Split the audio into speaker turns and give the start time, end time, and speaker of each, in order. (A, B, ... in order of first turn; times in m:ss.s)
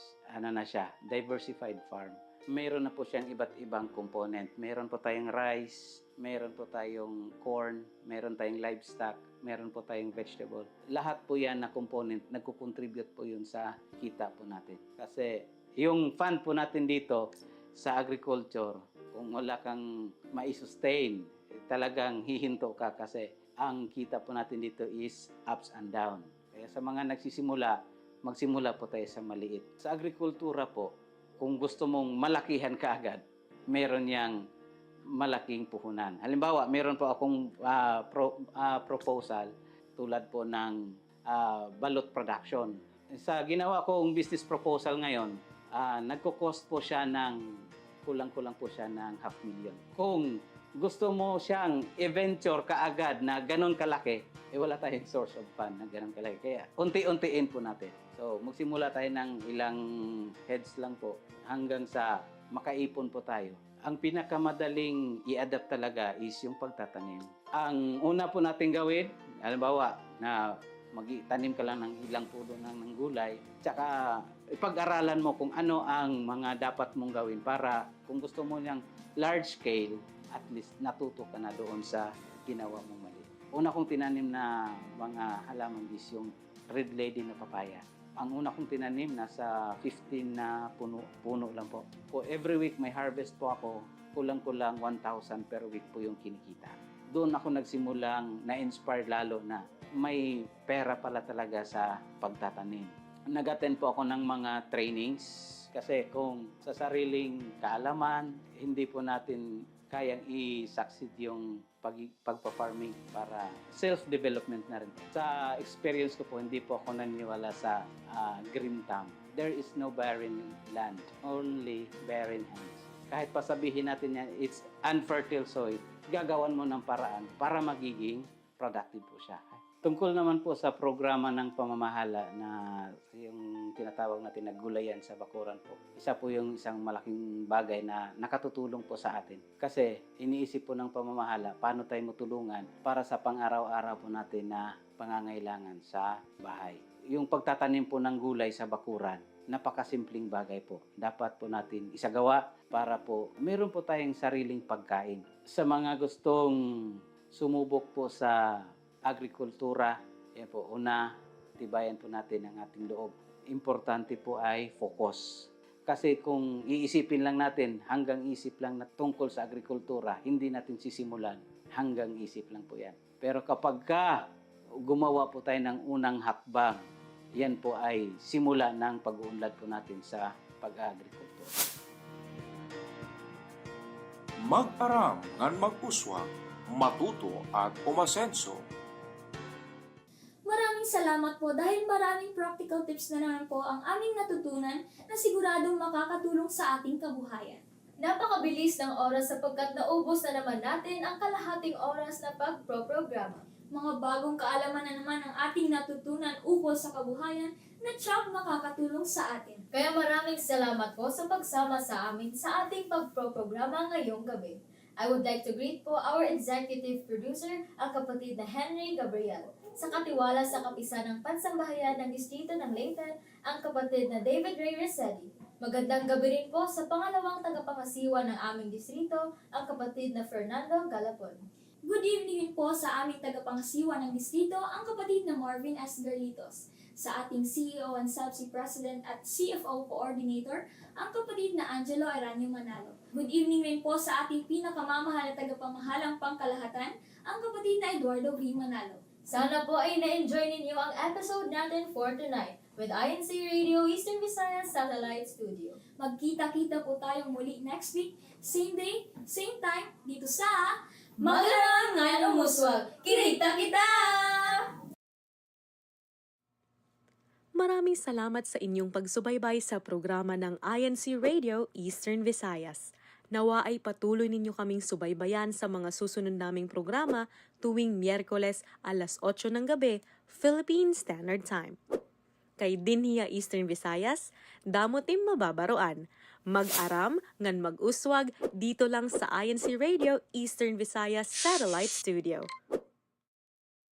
0:00.3-0:17.2 A
0:17.8-0:34.4 A
0:35.1-0:47.4 A
0:48.0-1:10.4 A
1:10.9-1:24.5 A
1:25.0-2:36.6 A
2:37.3-2:38.4 A
2:39.1-2:41.0 A
2:41.6-2:54.2 A
2:54.8-2:56.8 A
2:57.4-3:01.5 A
3:04.4-3:08.6 B
3:10.5-3:17.6 C
3:18.0-3:23.4 D
3:23.7-3:29.6 C
3:29.7-3:51.4 D
3:51.9-4:09.0 C
4:09.3-4:15.8 D
4:16.0-4:22.6 C
4:21.2-4:24.6 D
4:27.6-4:41.8 E
4:42.6-4:52.5 E